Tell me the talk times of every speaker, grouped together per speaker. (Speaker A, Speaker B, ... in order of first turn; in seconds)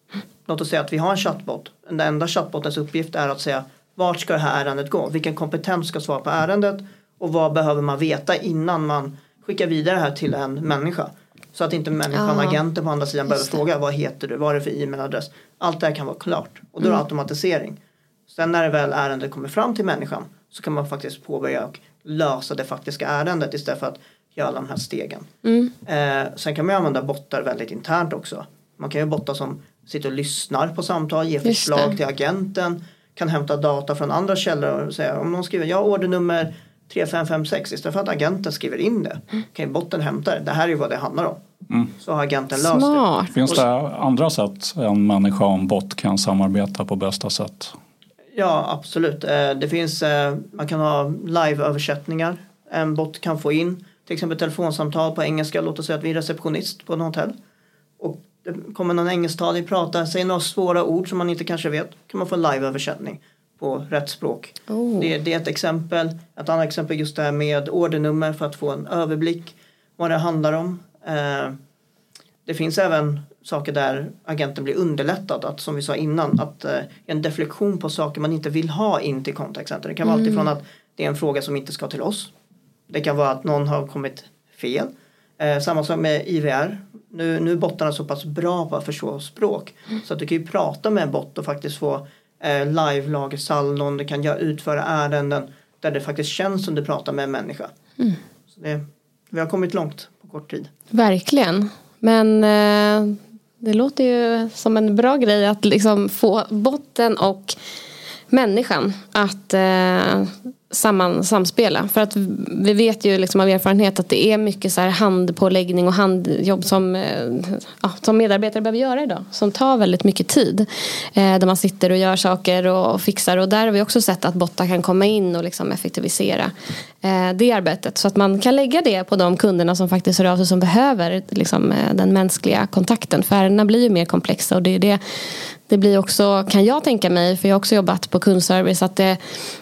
Speaker A: 0.5-17.8, 18.3-25.3, 25.9-41.4, 42.0-43.6, 48.3-57.4, 58.0-71.6, 72.5-82.3, 82.9-97.7, 98.5-100.7
Speaker B: 12.1-12.6, 13.3-13.6, 25.4-25.7, 31.4-31.9, 42.5-43.4, 64.7-65.1, 80.0-80.5, 100.9-107.5, 108.3-139.2
Speaker C: 43.3-47.7